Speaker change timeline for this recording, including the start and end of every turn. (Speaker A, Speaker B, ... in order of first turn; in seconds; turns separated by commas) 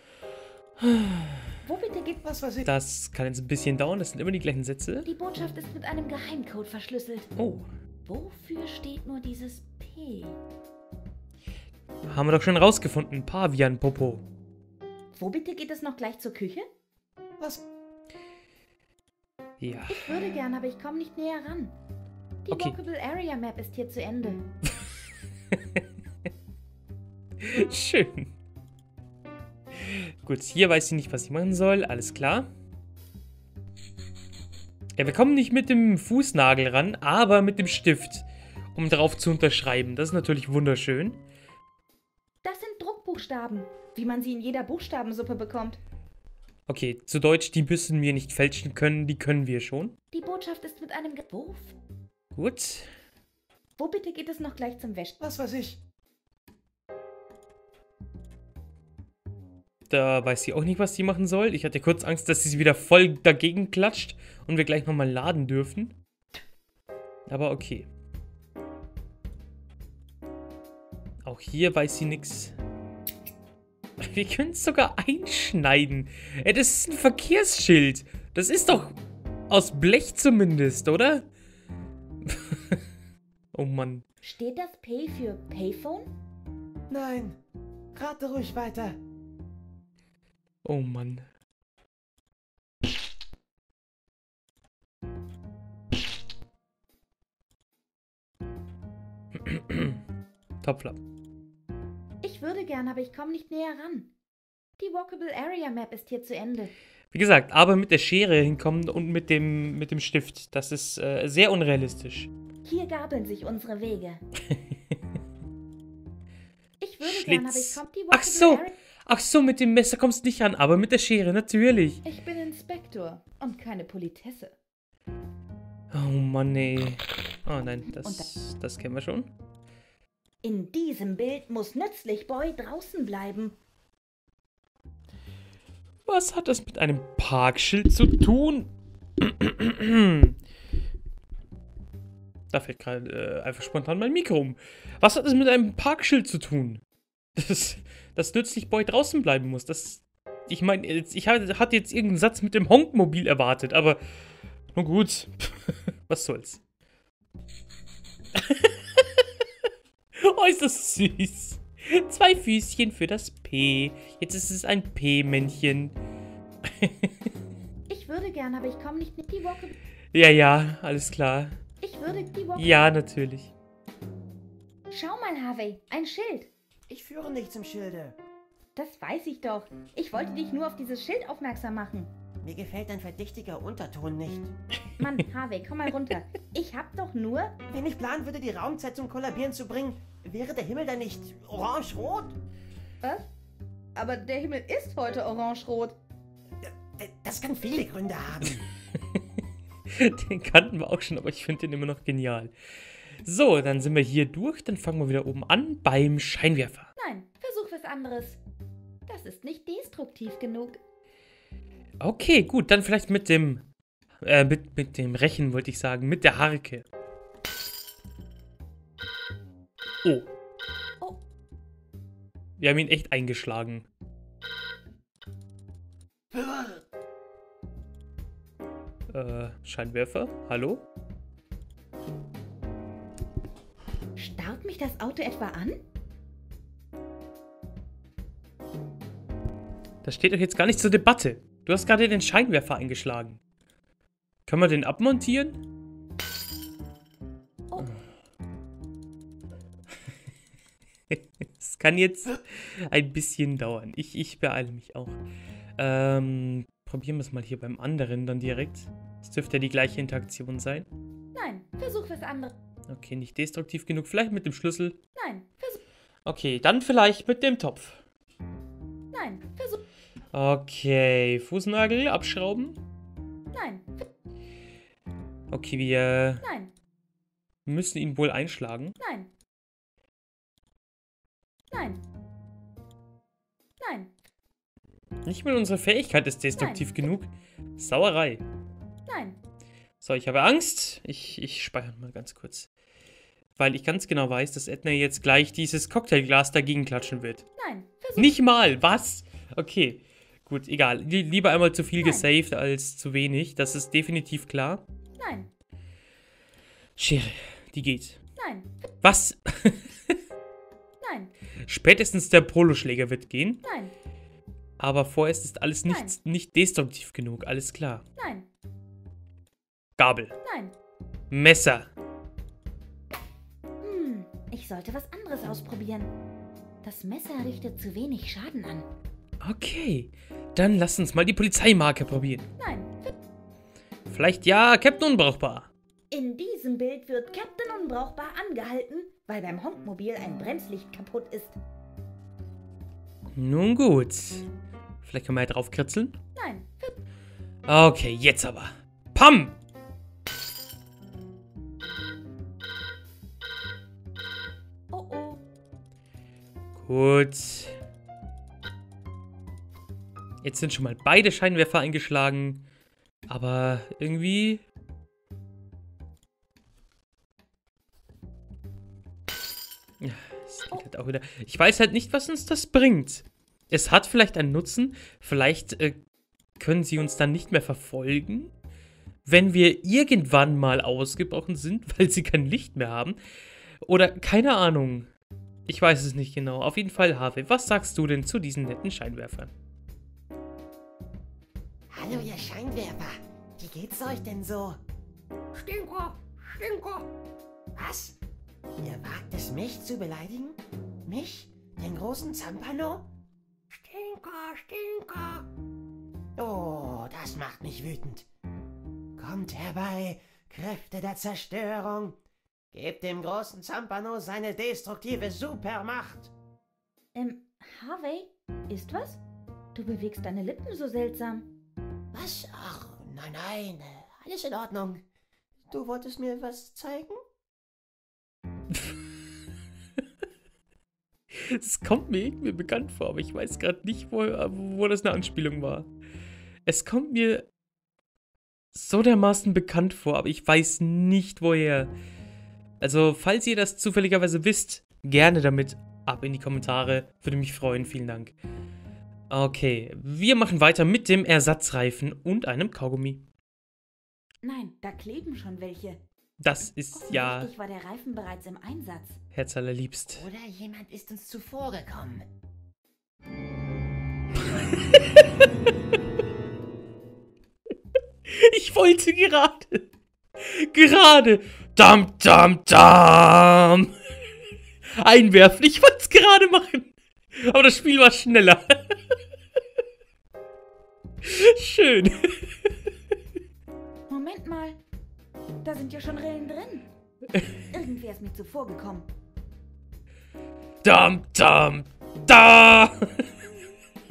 Speaker A: 0.8-1.4, Speaker B: 1.6-2.2, Speaker C: 2.2-2.7, Speaker A: 2.6-5.1, Speaker B: 5.0-7.3, Speaker A: 7.4-7.7, Speaker B: 8.1-10.4, Speaker A: 12.1-14.2, Speaker B: 15.1-16.6, Speaker C: 17.4-17.6, Speaker A: 19.6-20.1, Speaker B: 19.9-21.8, Speaker B: 22.4-24.5, Speaker A: 22.5-22.8, Speaker A: 27.4-28.3, Speaker A: 29.8-32.5, Speaker A: 35.0-41.2, Speaker B: 42.4-45.8, Speaker A: 46.7-50.0, Speaker B: 50.1-51.8, Speaker A: 52.3-52.9, Speaker B: 53.8-55.2, Speaker C: 55.2-55.8, Speaker A: 59.9-66.0, Speaker A: 67.3-67.9, Speaker A: 71.2-72.6, Speaker A: 74.0-79.0, Speaker A: 79.5-81.3, Speaker A: 82.3-82.8, Speaker A: 83.5-84.1, Speaker B: 84.2-86.1, Speaker C: 86.9-87.4, Speaker C: 87.9-89.0, Speaker A: 90.6-91.3, Speaker A: 99.4-100.0, Speaker A: 100.6-101.0, Speaker B: 102.2-104.1, Speaker B: 104.8-106.7, Speaker A: 107.1-112.3, Speaker B: 112.6-114.2, Speaker B: 116.8-118.7, Speaker A: 117.0-122.0, Speaker B: 122.0-124.6, Speaker A: 125.9-129.3, Speaker B: 127.9-128.3, Speaker B: 130.4-133.6, Speaker A: 136.1-140.4, Speaker A: 142.5-146.8, Speaker A: 147.4-154.0, Speaker A: 154.7-156.6, Speaker A: 158.4-159.2, Speaker A: 160.2-166.0, Speaker A: 166.7-167.1, Speaker B: 167.9-169.8, Speaker A: 170.1-171.6, Speaker B: 171.8-172.8, Speaker A: 172.5-173.5, Speaker B: 174.9-176.5, Speaker C: 176.9-178.2, Speaker B: 178.8-182.1, Speaker C: 182.4-184.5, Speaker B: 185.0-187.6, Speaker C: 187.7-192.4, Speaker B: 193.0-193.3, Speaker B: 193.9-196.0, Speaker C: 196.7-198.7, Speaker A: 199.9-202.5, Speaker A: 203.2-206.9, Speaker B: 207.0-208.4, Speaker B: 209.1-210.8, Speaker A: 212.0-213.7, Speaker A: 214.2-216.8, Speaker A: 222.6-223.9, Speaker A: 229.1-230.8, Speaker B: 234.2-235.8, Speaker A: 240.0-243.4, Speaker A: 244.5-245.6, Speaker A: 251.1-255.2, Speaker A: 255.8-260.9, Speaker B: 261.3-262.6, Speaker A: 262.9-265.0, Speaker B: 265.1-265.8, Speaker A: 266.2-268.0, Speaker B: 269.1-269.8, Speaker A: 270.3-272.8, Speaker B: 273.5-274.1, Speaker A: 275.5-276.4, Speaker B: 276.4-276.7, Speaker A: 277.7-279.0, Speaker B: 279.0-279.3, Speaker B: 281.7-282.0, Speaker B: 283.8-284.1, Speaker A: 285.3-288.4, Speaker B: 286.6-286.9, Speaker B: 289.1-289.4, Speaker A: 290.0-292.7, Speaker A: 293.6-297.4, Speaker B: 297.6-298.4, Speaker A: 298.2-304.8, Speaker B: 302.0-302.3, Speaker B: 305.2-305.5, Speaker A: 307.0-308.2, Speaker B: 308.4-308.9, Speaker A: 309.0-310.1, Speaker B: 311.0-311.3, Speaker A: 311.6-313.6, Speaker B: 313.6-313.9, Speaker A: 314.8-318.0, Speaker B: 315.9-316.2, Speaker B: 318.2-318.5, Speaker A: 320.0-320.3, Speaker B: 320.4-320.8, Speaker A: 321.3-321.9, Speaker B: 323.8-326.1, Speaker B: 326.8-328.9, Speaker A: 329.4-332.5, Speaker B: 332.6-333.2, Speaker A: 334.1-335.7, Speaker B: 336.1-341.6, Speaker A: 343.4-344.5, Speaker A: 345.0-346.2, Speaker B: 346.4-347.0, Speaker A: 347.7-349.6, Speaker B: 354.9-355.4, Speaker A: 356.8-357.8, Speaker A: 360.4-362.6, Speaker A: 363.3-364.6, Speaker A: 370.0-376.0, Speaker A: 376.6-378.5, Speaker A: 379.2-383.2, Speaker A: 383.8-385.1, Speaker A: 385.7-389.5, Speaker C: 391.9-394.8, Speaker C: 395.5-397.1, Speaker C: 397.8-398.2, Speaker C: 398.8-403.1, Speaker C: 403.7-405.5, Speaker C: 406.4-408.3, Speaker C: 409.2-412.2, Speaker C: 412.7-416.3, Speaker B: 417.1-419.2, Speaker B: 419.8-421.5, Speaker C: 422.1-425.0, Speaker C: 425.7-427.2, Speaker A: 428.7-429.0, Speaker A: 431.3-435.9, Speaker A: 436.7-437.5, Speaker A: 438.7-441.9, Speaker A: 442.8-448.4, Speaker A: 449.3-453.2, Speaker B: 454.4-456.0, Speaker A: 456.4-457.5, Speaker B: 456.9-459.2, Speaker A: 459.4-460.2, Speaker C: 460.1-462.2, Speaker A: 464.8-465.3, Speaker A: 468.3-469.9, Speaker A: 470.4-473.9, Speaker A: 475.0-478.8, Speaker A: 481.2-482.7, Speaker B: 484.1-484.8, Speaker B: 485.6-486.9, Speaker B: 487.7-489.1, Speaker A: 490.8-493.3